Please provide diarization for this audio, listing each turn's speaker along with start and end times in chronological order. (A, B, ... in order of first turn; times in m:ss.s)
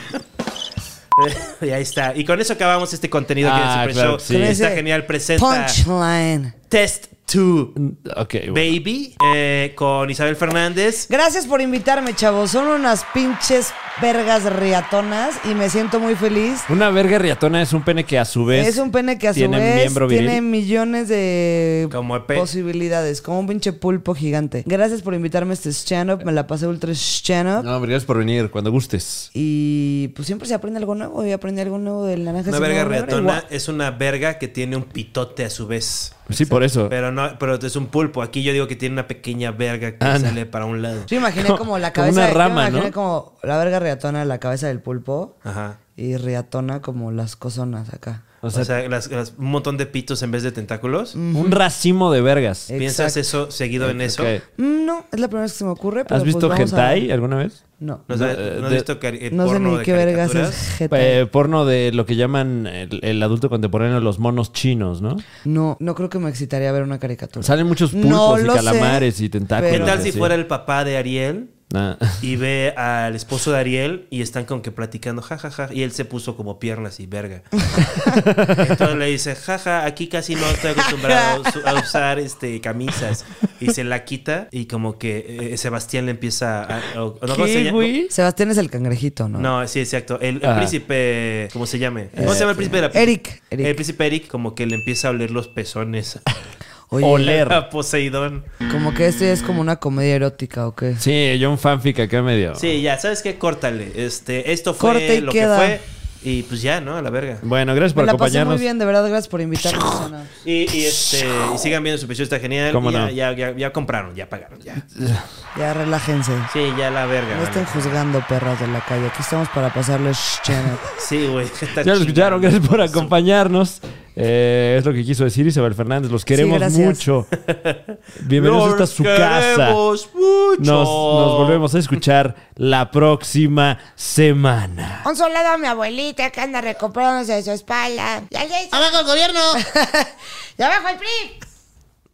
0:01.2-0:05.8 A
0:03.4-0:04.6 B
0:04.3-0:04.8 C
0:05.4-0:06.5 C
0:06.7-0:07.7 A
0:07.8-0:08.8 B
0:08.5-0:11.1 A
0:11.1-0:16.7 C
0:16.7-0:18.8 B
0:18.5-0:27.7 C
0:19.3-0:20.4 B
0:21.9-0:22.5 A
0:27.6-0:29.3 B
0:29.3-0:33.4 C
0:32.5-0:41.1 A
0:36.3-0:36.9 B
0:40.0-0:40.4 B
0:41.1-0:45.3 C
0:41.4-0:42.9 B
0:45.4-0:45.8 A
0:46.0-0:48.2 C
0:48.4-0:48.7 B
0:48.5-0:51.2 A
0:51.1-0:51.6 C
0:51.3-0:52.7 B
0:52.7-0:53.2 C
0:52.8-0:54.3 A
0:53.8-0:54.4 B
0:54.6-0:57.1 C
0:56.1-0:57.6 B
0:57.8-0:58.1 C
0:58.1-1:00.6 A
0:58.1-0:58.8 B
0:59.3-1:01.2 C
1:00.9-1:05.2 B
1:05.4-1:10.0 C
1:07.4-1:10.3 B
1:09.6-1:11.5 A
1:11.7-1:12.2 B
1:12.2-1:17.8 A
1:17.8-1:18.2 C
1:18.0-1:18.8 B
1:18.4-1:27.9 A
1:20.6-1:21.8 C
1:27.3-1:28.1 B
1:28.1-1:29.5 C
1:29.4-1:36.5 A
1:30.4-1:30.8 B
1:32.2-1:32.7 B
1:32.2-1:33.7 C
1:36.9-1:37.5 C
1:37.0-1:37.6 B
1:37.2-1:38.4 A
1:38.7-1:41.0 C
1:41.0-1:42.7 B
1:42.6-1:47.4 A
1:44.8-1:45.8 C
1:47.4-1:48.6 B
1:47.9-1:50.3 C
1:49.6-1:50.1 B
1:50.4-1:54.8 A
1:50.8-1:51.3 B
1:52.7-1:53.1 B
1:54.9-1:55.2 B
1:55.5-1:56.5 C
1:56.5-1:58.0 A
1:57.3-2:00.8 C
2:01.0-2:03.1 A
2:01.8-2:07.3 B
2:06.3-2:07.0 C
2:07.4-2:07.8 A
2:08.2-2:09.8 B
2:08.3-2:11.6 A
2:10.6-2:15.0 B
2:15.0-2:21.4 D
2:18.7-2:19.6 A